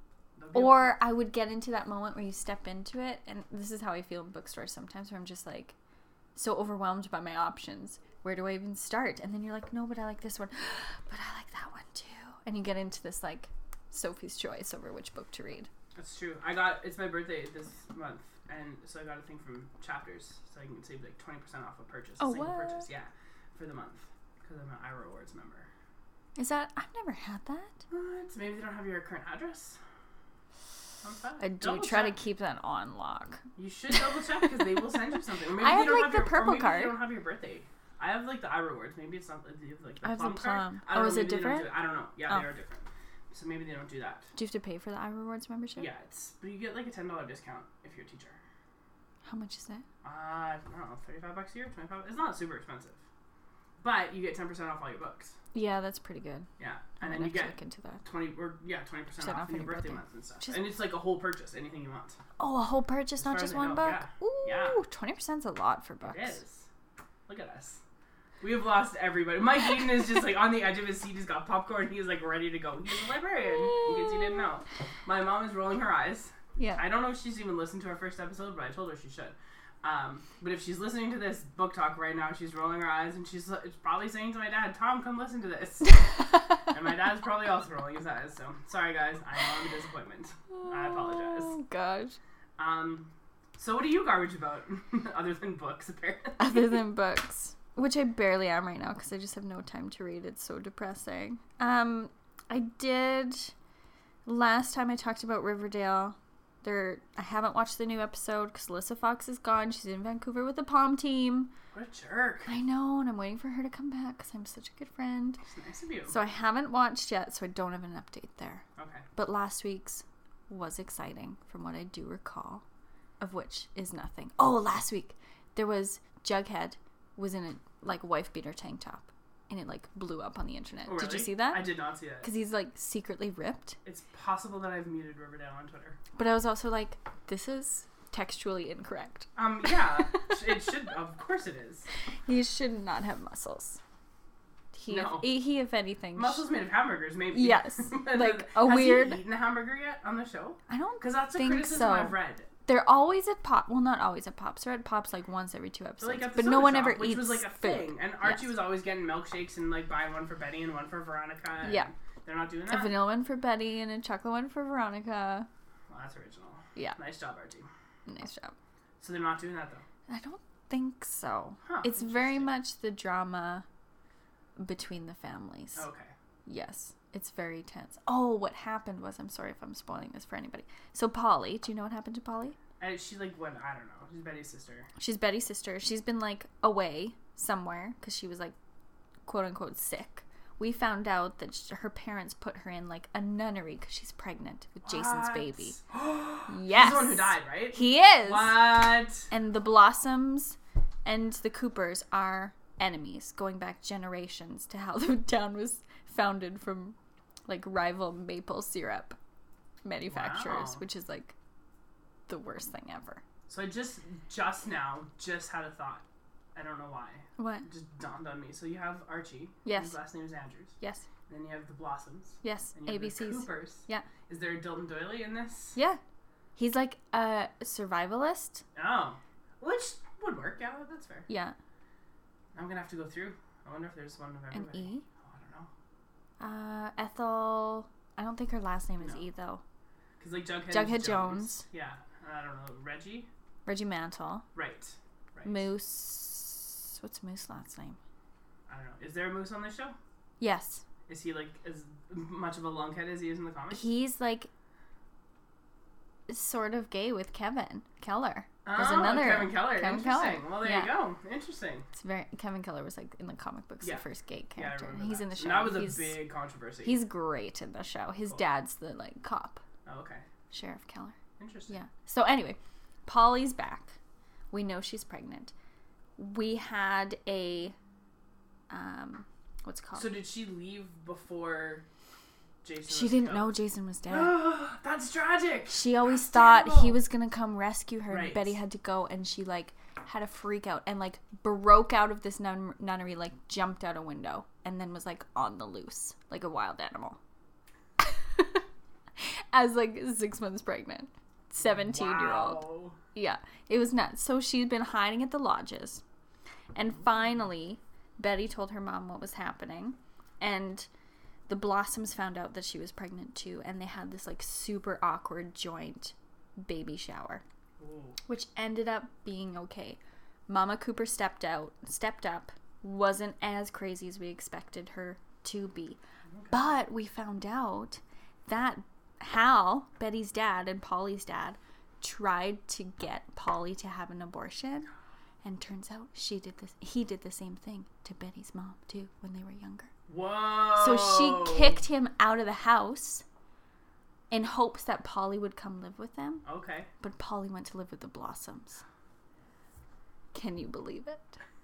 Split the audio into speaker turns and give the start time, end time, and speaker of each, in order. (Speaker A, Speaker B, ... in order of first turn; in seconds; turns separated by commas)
Speaker A: 0.4-1.0, Speaker B: 0.5-5.8, Speaker B: 6.4-15.7, Speaker A: 15.9-25.7, Speaker B: 22.2-22.9, Speaker B: 26.4-27.8, Speaker A: 27.9-29.8, Speaker A: 31.0-32.1, Speaker B: 31.4-33.4, Speaker A: 33.6-44.3, Speaker B: 35.6-37.0, Speaker B: 40.0-41.7, Speaker B: 44.4-45.9, Speaker A: 45.8-48.4, Speaker B: 49.2-49.9, Speaker A: 50.0-53.0, Speaker A: 53.8-55.4, Speaker B: 55.5-56.5, Speaker A: 56.6-62.2, Speaker B: 57.0-58.0, Speaker B: 59.2-60.6, Speaker B: 62.4-66.4, Speaker A: 63.2-64.8, Speaker A: 66.0-66.7, Speaker A: 67.3-67.8, Speaker A: 68.4-86.0, Speaker B: 76.6-76.8, Speaker A: 86.7-91.5, Speaker B: 90.5-92.2, Speaker A: 92.6-96.8, Speaker B: 96.4-103.5, Speaker B: 104.3-111.5, Speaker A: 111.7-112.5, Speaker B: 112.5-115.4, Speaker A: 115.4-116.2, Speaker B: 116.1-118.6, Speaker A: 118.8-119.1, Speaker B: 119.2-122.6, Speaker B: 123.2-131.7, Speaker A: 130.9-132.3, Speaker B: 132.2-133.8, Speaker A: 133.8-136.0, Speaker B: 136.2-140.4, Speaker A: 139.4-141.9, Speaker B: 142.3-143.8, Speaker B: 144.7-146.4, Speaker A: 144.9-145.3, Speaker A: 146.2-152.5, Speaker B: 147.3-149.2, Speaker B: 150.7-158.5, Speaker A: 156.0-162.9, Speaker B: 161.6-161.9, Speaker B: 162.7-165.5, Speaker A: 165.9-167.7, Speaker B: 168.1-168.5, Speaker A: 169.0-169.8, Speaker B: 170.1-173.7, Speaker A: 171.6-172.6, Speaker B: 174.6-175.8, Speaker A: 175.8-176.1, Speaker B: 176.5-182.6, Speaker A: 182.8-184.9, Speaker B: 185.0-188.6, Speaker B: 189.3-195.8, Speaker A: 194.8-199.3, Speaker B: 196.5-206.9, Speaker B: 207.5-209.2, Speaker B: 209.8-211.3, Speaker A: 210.1-210.8, Speaker B: 212.3-213.2, Speaker A: 213.5-216.0, Speaker A: 216.6-220.7, Speaker B: 217.4-217.7, Speaker B: 219.7-220.0, Speaker B: 220.8-221.1, Speaker A: 221.3-225.8, Speaker B: 222.4-224.1, Speaker B: 226.6-228.6, Speaker A: 228.8-231.3, Speaker B: 231.3-231.6, Speaker A: 232.5-235.7, Speaker B: 234.5-235.1, Speaker B: 236.4-239.6, Speaker A: 240.2-243.3, Speaker B: 240.7-241.6, Speaker B: 243.7-244.5, Speaker A: 244.6-245.7, Speaker B: 245.4-248.0, Speaker A: 248.7-250.0, Speaker B: 250.4-250.8, Speaker A: 251.1-253.9, Speaker B: 253.7-254.5, Speaker B: 256.3-261.0, Speaker A: 258.6-261.9, Speaker B: 261.9-266.2, Speaker A: 264.6-267.0, Speaker B: 266.8-269.6, Speaker A: 269.9-270.2, Speaker B: 270.5-271.1, Speaker A: 271.4-271.7, Speaker B: 271.7-273.9, Speaker B: 274.5-275.5, Speaker B: 276.2-277.8, Speaker B: 278.7-280.1, Speaker A: 280.0-281.8, Speaker A: 282.6-283.5, Speaker B: 282.9-284.4, Speaker A: 284.1-287.0, Speaker B: 285.7-297.2, Speaker A: 288.1-288.6, Speaker B: 298.0-298.6, Speaker B: 299.2-302.6, Speaker A: 301.6-303.0, Speaker B: 303.1-306.0, Speaker B: 306.7-310.9, Speaker B: 311.5-317.4, Speaker A: 317.8-318.2, Speaker B: 318.3-326.0, Speaker A: 326.3-326.6, Speaker B: 326.5-334.9, Speaker B: 335.4-339.9, Speaker A: 340.1-341.8, Speaker B: 340.7-343.2, Speaker B: 344.3-346.4, Speaker A: 346.5-346.9, Speaker B: 347.0-348.8, Speaker B: 350.3-351.4